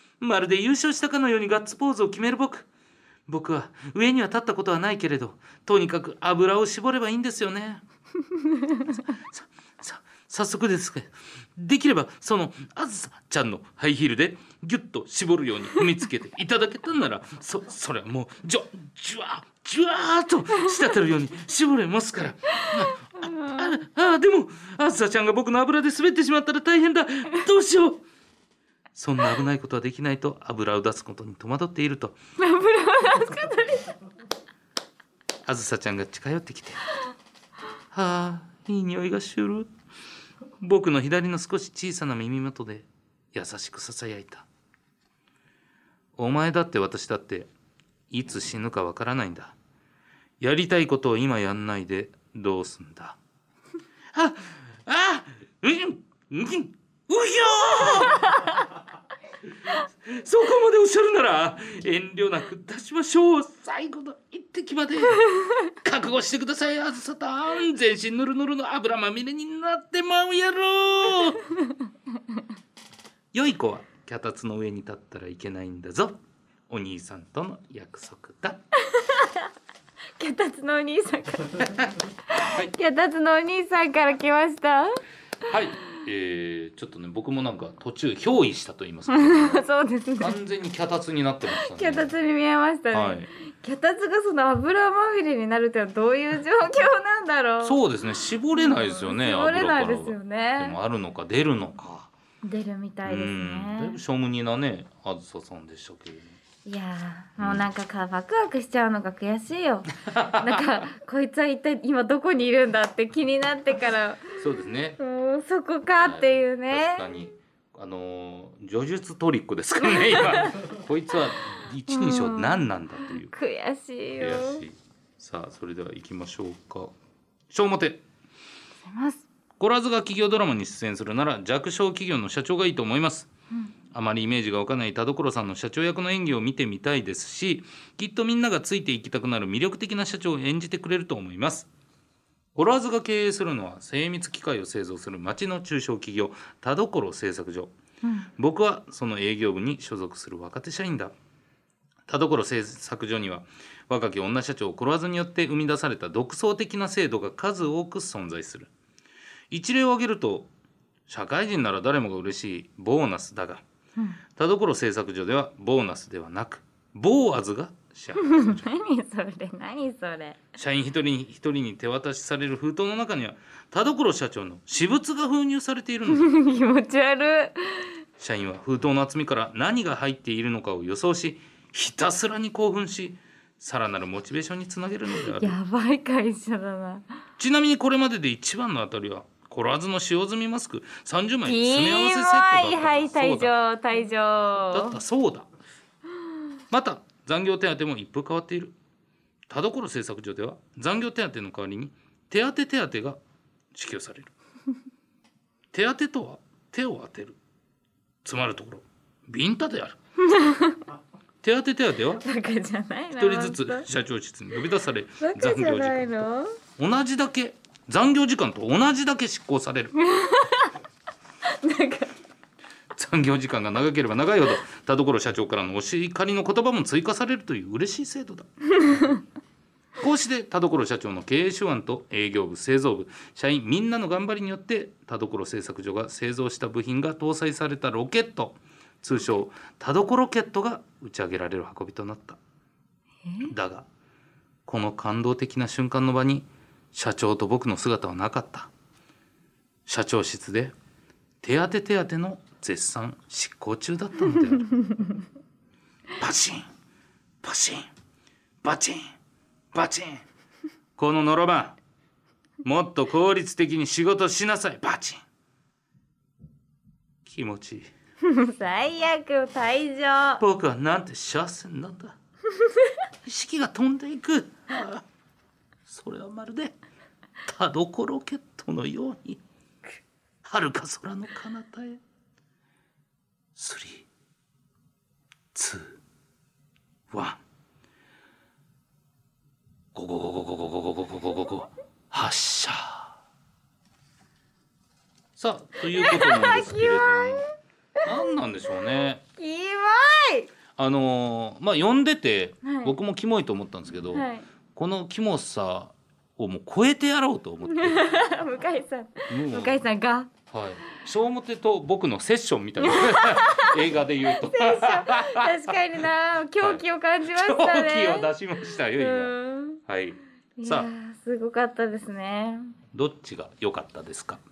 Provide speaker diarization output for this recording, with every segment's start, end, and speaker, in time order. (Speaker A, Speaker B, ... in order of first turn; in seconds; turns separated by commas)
Speaker A: 0.2-2.7, Speaker A: 3.3-7.8, Speaker B: 8.5-8.8, Speaker A: 8.9-28.0, Speaker B: 22.5-23.7, Speaker A: 28.9-32.2, Speaker B: 32.4-33.9, Speaker A: 35.5-36.8, Speaker A: 37.9-39.7, Speaker A: 40.6-44.5, Speaker A: 46.2-47.5, Speaker A: 48.1-49.5, Speaker A: 50.4-53.2, Speaker A: 54.1-58.6, Speaker A: 59.7-71.5, Speaker A: 73.3-78.6, Speaker B: 78.8-79.5, Speaker B: 80.2-85.0, Speaker A: 82.4-82.7, Speaker A: 85.5-89.7, Speaker B: 89.1-90.3, Speaker A: 90.2-92.1, Speaker B: 91.6-97.8, Speaker A: 92.9-93.3, Speaker A: 97.6-102.1, Speaker B: 98.5-100.8, Speaker B: 102.4-104.0, Speaker A: 103.0-106.4, Speaker B: 106.7-114.3, Speaker A: 107.4-107.7, Speaker A: 110.0-110.7, Speaker A: 114.4-115.0, Speaker B: 115.0-117.0, Speaker A: 116.0-123.3, Speaker B: 121.9-122.6, Speaker B: 123.3-124.6, Speaker A: 124.2-126.9, Speaker A: 127.5-128.0, Speaker B: 128.8-129.2, Speaker A: 129.6-133.3, Speaker A: 133.9-141.7, Speaker A: 142.6-147.7, Speaker B: 148.0-148.3, Speaker A: 148.4-151.1, Speaker A: 152.1-158.7, Speaker A: 159.5-160.5, Speaker A: 161.1-163.6, Speaker A: 164.4-168.7, Speaker B: 168.2-170.4, Speaker A: 170.6-176.4, Speaker B: 176.1-177.9, Speaker A: 178.2-185.6, Speaker B: 185.2-187.1, Speaker A: 187.4-193.5, Speaker B: 191.4-195.0, Speaker A: 194.7-195.5, Speaker A: 196.7-198.8, Speaker A: 199.5-203.2, Speaker A: 203.7-204.3, Speaker A: 205.7-207.4, Speaker A: 208.2-210.0, Speaker B: 210.2-210.8, Speaker A: 211.4-212.2, Speaker B: 212.2-213.9, Speaker A: 213.2-216.2, Speaker B: 215.2-216.6, Speaker A: 216.8-219.9, Speaker B: 220.0-220.7, Speaker B: 221.4-222.1, Speaker A: 222.9-228.5, Speaker B: 228.8-229.2, Speaker A: 230.0-242.4, Speaker B: 243.3-243.5, Speaker A: 243.5-243.9, Speaker A: 244.7-248.7, Speaker A: 249.9-250.7, Speaker A: 251.4-254.8, Speaker A: 256.2-256.7, Speaker A: 257.4-257.9, Speaker A: 258.6-259.1, Speaker A: 259.7-260.3, Speaker A: 261.0-261.8, Speaker A: 262.6-265.2, Speaker A: 267.2-267.9, Speaker B: 268.2-270.4, Speaker A: 270.4-272.2, Speaker B: 272.6-272.9, Speaker A: 273.2-275.1, Speaker A: 275.9-276.8, Speaker A: 277.4-279.4, Speaker A: 280.4-282.0, Speaker A: 283.6-284.1, Speaker A: 285.5-286.0, Speaker A: 287.1-287.4, Speaker A: 289.9-293.1, Speaker A: 295.4-297.4, Speaker B: 295.9-297.4, Speaker A: 298.0-299.2, Speaker B: 299.4-300.5, Speaker A: 300.8-308.1, Speaker B: 302.6-302.9, Speaker B: 304.1-304.4, Speaker B: 307.7-310.3, Speaker A: 309.3-309.9, Speaker A: 310.5-315.8, Speaker B: 312.8-318.3, Speaker A: 316.6-320.9, Speaker B: 319.0-319.8, Speaker B: 320.6-322.7, Speaker A: 322.9-324.4